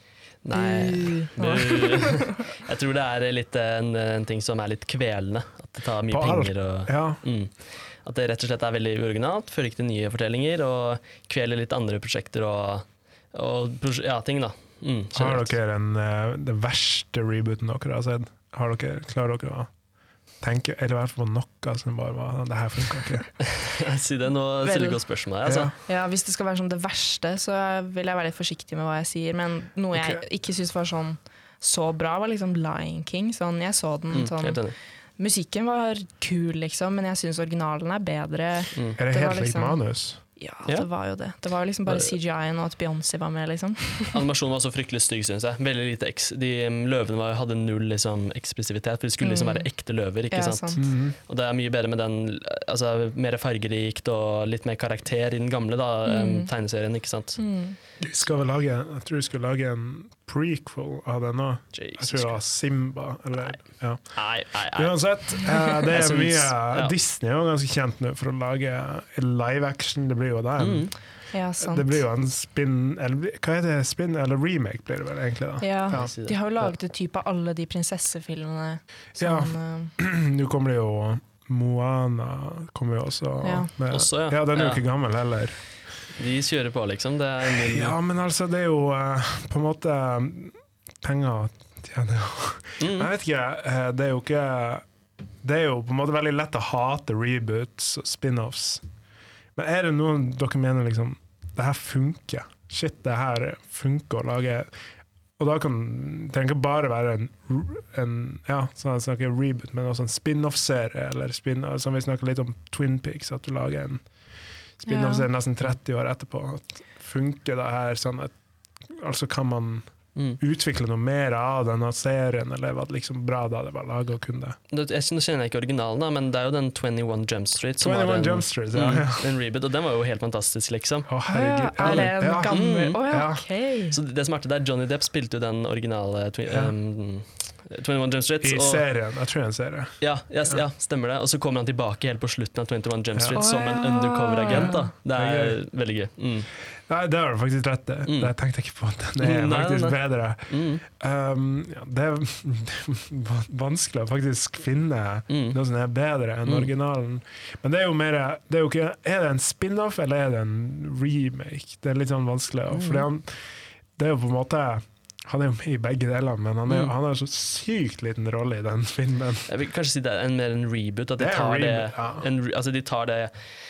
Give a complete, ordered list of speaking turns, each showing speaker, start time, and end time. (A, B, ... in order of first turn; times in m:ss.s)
0:00.4-0:07.5 A
0:00.5-0:02.4 B
0:06.1-0:07.2 C
0:08.0-0:15.5 A
0:15.1-0:19.7 C
0:20.4-0:23.3 C
0:23.4-0:25.7 A
0:24.6-0:25.0 B
0:25.4-0:25.7 C
0:25.8-0:34.6 B
0:29.9-0:30.2 C
0:34.1-0:34.8 A
0:35.2-0:39.8 B
0:39.0-0:40.2 C
0:40.4-0:44.2 B
0:41.9-0:42.1 A
0:44.1-0:57.4 A
0:49.2-0:49.7 B
0:50.3-0:50.8 B
0:50.8-0:51.1 C
0:56.1-0:56.5 B
0:57.4-0:57.8 B
0:58.0-1:10.9 C
1:01.7-1:02.4 A
1:04.1-1:07.0 A
1:10.6-1:10.9 A
1:11.3-1:12.0 B
1:11.6-1:16.1 C
1:15.6-1:19.9 B
1:15.9-1:16.7 A
1:19.2-1:25.6 C
1:23.4-1:23.7 B
1:23.9-1:24.8 A
1:26.2-1:28.0 A
1:27.4-1:34.8 C
1:32.8-1:33.1 A
1:35.4-1:38.8 C
1:39.6-1:44.7 C
1:45.4-1:54.0 C
1:54.8-1:58.3 C
1:54.9-1:55.3 B
1:58.9-1:59.9 C
2:00.4-2:04.6 C
2:04.7-2:11.1 A
2:07.8-2:09.3 C
2:11.1-2:13.4 C
2:11.3-2:14.0 B
2:11.8-2:13.0 A
2:13.9-2:18.9 A
2:16.5-2:16.7 C
2:18.4-2:20.0 C
2:20.0-2:26.5 A
2:23.1-2:23.5 C
2:23.4-2:24.9 B
2:24.5-2:25.6 C
2:26.9-2:43.4 C
2:28.1-2:28.3 A
2:29.2-2:30.8 A
2:35.3-2:35.6 A
2:36.5-2:36.7 A
2:42.7-2:43.1 A
2:44.0-2:49.5 C
2:46.7-2:46.9 A
2:49.5-2:53.3 A
2:51.2-2:52.3 C